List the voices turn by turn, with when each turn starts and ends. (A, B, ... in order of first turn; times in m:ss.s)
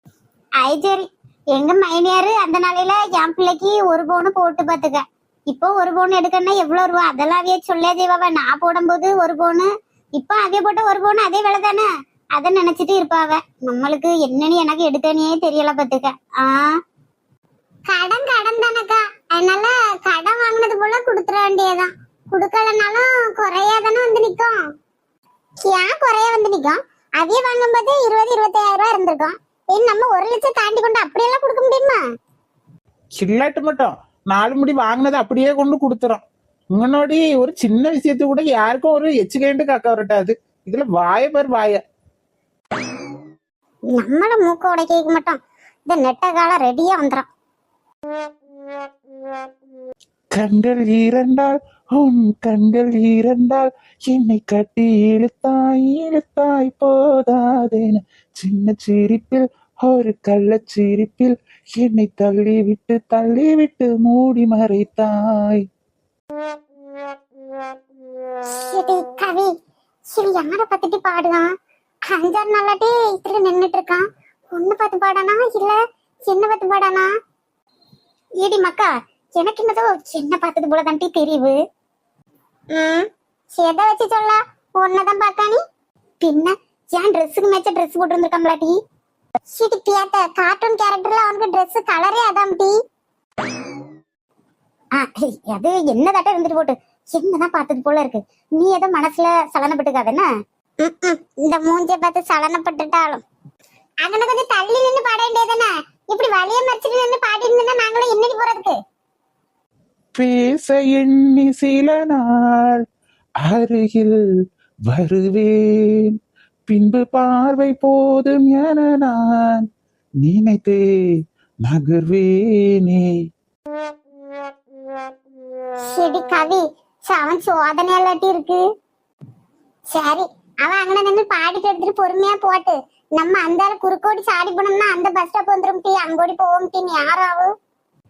0:00.6-0:16.7 A
0:17.9-0:24.6 B
0:25.6-0:32.0 B
0:33.2-0:36.2 C
0:36.8-0:41.8 C
0:43.9-0:47.3 B
0:50.3-1:05.6 C
1:08.6-1:09.5 B
1:10.1-1:11.5 B
1:12.1-1:17.1 B
1:18.4-1:21.6 A
1:22.7-1:25.6 B
1:26.2-1:28.8 A
1:29.5-1:32.7 B
1:35.0-1:40.3 A
1:40.8-1:43.2 B
1:44.0-1:48.8 B
1:50.2-1:52.8 C
1:53.4-1:54.2 C
1:54.9-1:56.2 C
1:56.7-1:59.6 C
2:00.2-2:00.8 C
2:01.6-2:03.1 C
2:05.9-2:08.6 B
2:09.9-2:17.5 B